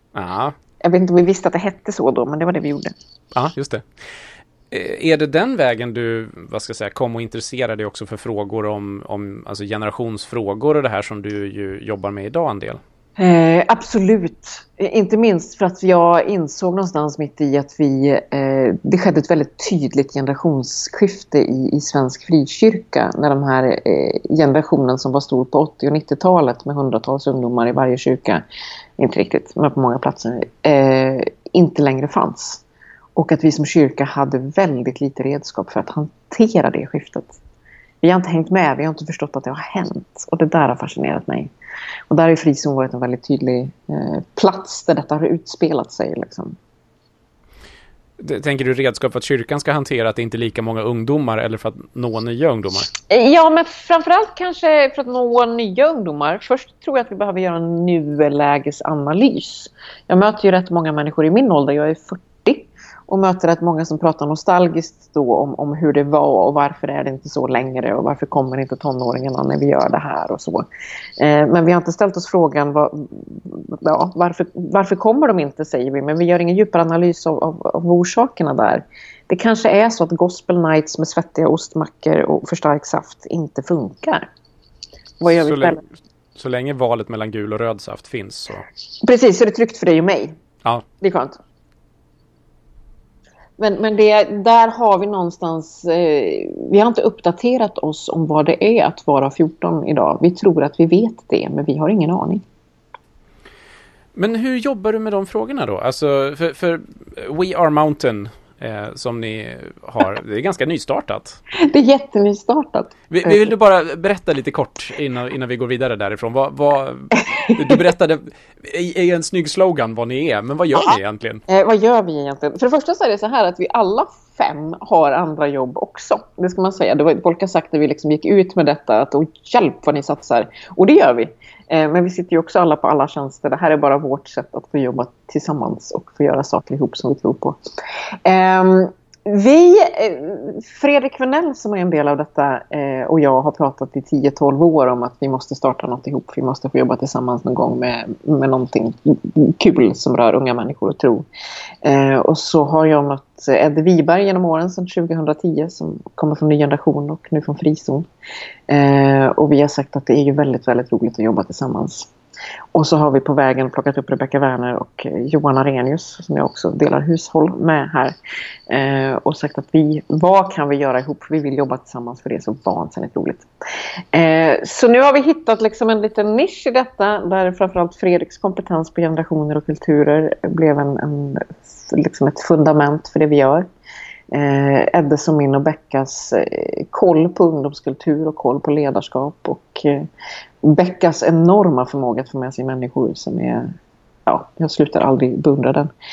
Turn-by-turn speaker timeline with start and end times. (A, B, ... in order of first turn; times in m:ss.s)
0:00.2-0:00.6 A
0:00.8-0:02.9 B
0:03.3-0:03.9 A
0:04.7-0:12.8 A
0:13.2-0:28.4 B
0:29.0-0:32.6 B
0:33.2-0:37.4 B
0:38.0-0:41.5 B
0:42.1-0:46.6 B
0:48.2-0:52.9 A
0:53.1-1:10.6 B
1:11.2-1:24.3 B
1:25.2-1:25.8 B
1:25.2-1:25.8 A
1:26.4-1:28.6 A
1:29.0-1:30.4 B
1:31.0-1:31.4 B
1:33.6-1:42.4 B
1:44.2-1:51.4 A
1:51.5-1:53.5 B
1:53.1-2:01.4 A
1:57.1-1:57.8 B
2:01.5-2:17.6 B
2:18.2-2:31.3 B
2:31.8-2:38.1 B
2:38.7-2:42.1 B
2:42.7-2:48.2 B
2:48.7-2:53.5 B
2:54.1-3:03.7 B
3:04.3-3:10.1 B
3:10.6-3:13.7 B
3:14.3-3:15.9 B